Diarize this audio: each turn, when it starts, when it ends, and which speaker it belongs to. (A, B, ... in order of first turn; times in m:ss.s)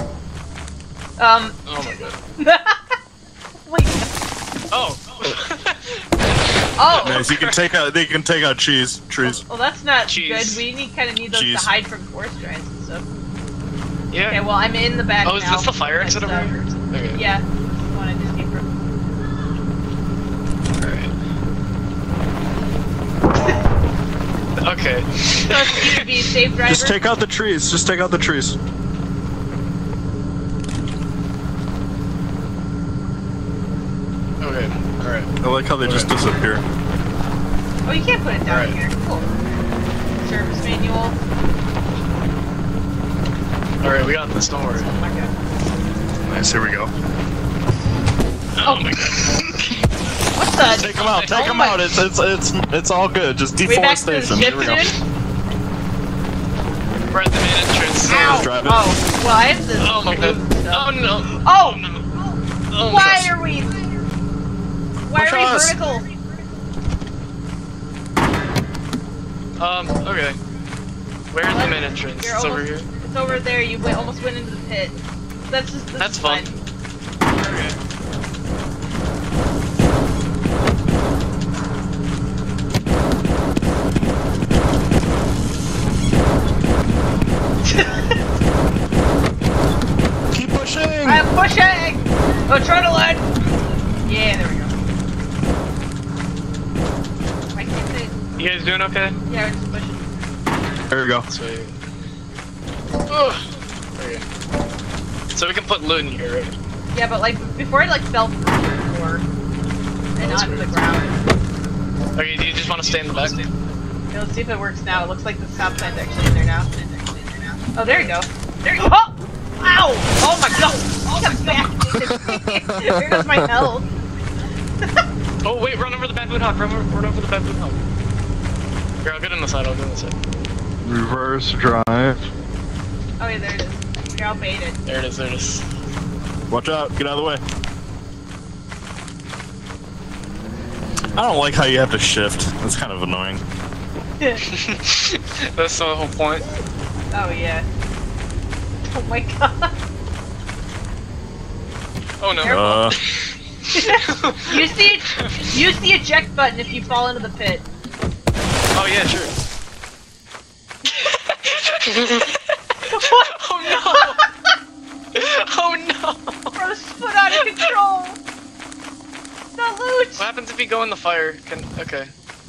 0:01.2-0:01.7 A
0:01.7-0:02.2 B
0:02.4-0:03.0 A
0:03.7-0:04.1 A
0:04.7-0:06.0 B
0:06.8-0:07.3 A
0:06.9-0:07.6 B
0:07.0-0:09.4 C
0:09.2-0:13.0 A
0:10.1-0:10.6 B
0:11.3-0:11.7 C
0:14.1-0:14.4 B
0:14.3-0:18.7 A
0:15.2-0:17.2 B
0:20.8-0:21.1 B
0:24.6-0:26.1 B
0:25.4-0:27.0 A
0:26.6-0:28.6 C
0:34.4-0:35.3 B
0:35.4-0:36.6 C
0:35.8-0:36.1 B
0:37.8-0:39.4 A
0:38.5-0:38.8 B
0:40.2-0:41.2 A
0:43.8-0:44.9 B
0:44.8-0:45.3 A
0:46.3-0:46.9 C
0:48.6-0:49.8 B
0:48.6-0:48.9 A
0:50.4-0:51.9 A
0:50.6-0:54.9 C
0:51.0-0:51.6 B
0:53.6-0:55.0 A
0:57.1-0:58.5 B
0:58.1-1:01.9 A
0:58.1-0:58.9 C
0:59.8-1:02.0 B
1:02.7-1:03.2 B
1:02.8-1:03.7 A
1:03.0-1:03.3 C
1:05.0-1:06.1 A
1:05.2-1:05.8 C
1:09.6-1:10.4 B
1:11.3-1:13.5 B
1:11.4-1:15.0 A
1:15.5-1:16.5 A
1:16.0-1:16.6 B
1:17.4-1:17.8 B
1:27.6-1:28.2 A
1:30.3-1:31.3 C
1:31.0-1:33.2 A
1:34.0-1:34.7 A
1:37.6-1:38.2 A
1:38.4-1:39.2 B
1:39.3-1:40.1 A
1:40.9-1:41.3 C
1:41.3-1:41.8 B
1:43.1-1:44.2 B
1:45.3-1:46.6 B
1:46.9-1:49.2 A
1:50.2-1:51.2 A
1:50.2-1:50.8 B
1:52.2-1:53.4 B
1:54.1-2:03.9 A
1:57.9-1:58.2 B
2:02.3-2:03.4 C
2:05.4-2:07.8 B
2:09.0-2:10.2 B
2:10.8-2:12.3 C
2:13.2-2:14.8 A
2:14.9-2:15.6 B
2:16.5-2:17.4 C
2:21.2-2:23.4 C
2:24.5-2:26.4 B
2:27.1-2:27.7 A
2:28.9-2:29.7 A
2:32.2-2:35.3 B
2:32.4-2:33.0 A
2:32.4-2:33.0 C
2:33.7-2:37.7 A
2:38.7-2:39.4 B
2:40.9-2:42.4 B
2:42.9-2:44.3 A
2:42.9-2:44.2 B
2:45.1-2:46.6 B
2:46.6-2:48.2 A
2:49.6-2:50.3 A
2:50.2-2:52.1 B